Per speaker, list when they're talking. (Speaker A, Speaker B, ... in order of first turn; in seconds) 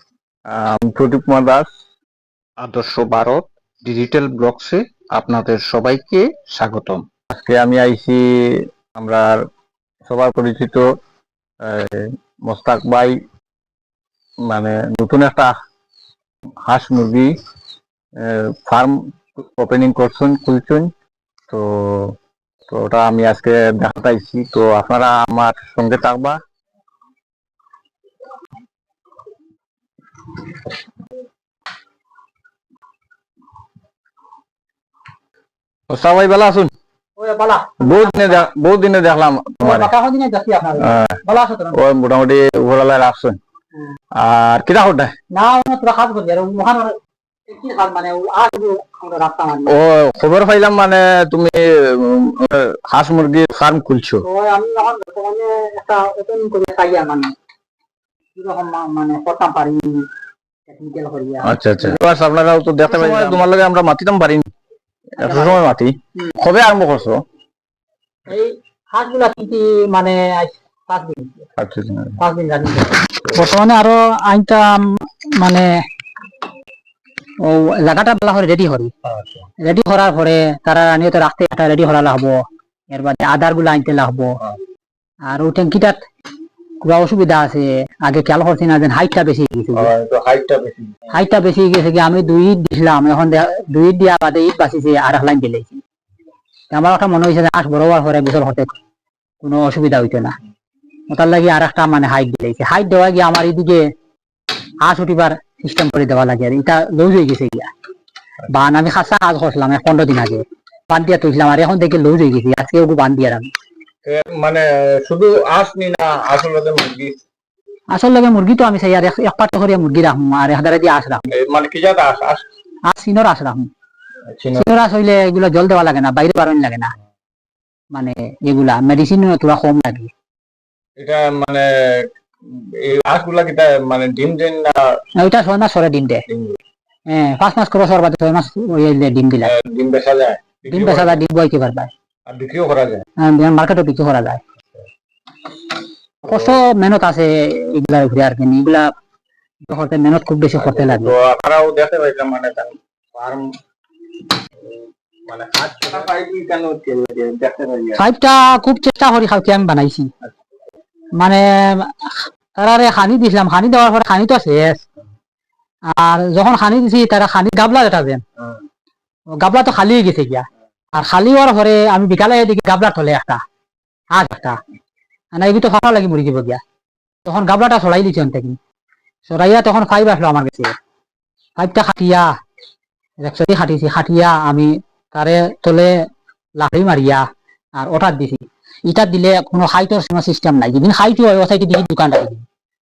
Speaker A: 0.5-1.7, 7.3-8.2, 8.9-9.4, 10.1-10.9, 11.6-13.2, 14.5-15.5, 16.6-17.3, 18.2-20.9, 21.5-22.1, 22.7-26.4, 35.9-36.7, 37.8-39.9, 40.8-41.2, 41.7-43.4, 44.1-45.1, 49.7-54.2, 61.4-64.5, 65.2-67.2, 71.6-72.2, 73.2-73.5, 79.1-79.4, 89.7-91.2, 114.0-117.2, 121.3-122.4, 124.3-124.7, 131.0-134.9, 136.3-136.6, 139.4-141.2, 142.3-143.0, 146.2-146.6, 150.6-153.5, 155.3-158.0
Speaker B: 2.6-7.0
Speaker C: 37.2-38.5, 39.6-41.8, 45.3-47.0, 47.5-49.8, 54.2-57.3, 58.4-60.1, 60.7-62.0, 63.0-63.4, 65.2-65.6, 68.3-71.5, 72.2-75.7, 77.4-78.9, 79.6-82.3, 82.9-84.3, 85.3-86.0, 86.8-89.9, 91.1-95.8, 96.7-98.8, 99.4-100.3, 101.1-103.8, 104.8-107.7, 108.5-113.5, 117.9-121.2, 122.9-123.7, 124.5-126.9, 127.9-130.1, 135.2-136.2, 137.1-139.5, 140.7-141.9, 143.2-144.4, 146.3-148.9, 149.7-151.1, 158.0-160.1, 161.2-164.8, 165.9-168.2, 169.4-173.4, 174.1-174.6, 175.3-176.6, 177.2-178.6, 179.3-180.7, 181.6-182.3, 183.2-185.9, 186.6-187.2, 187.8-192.4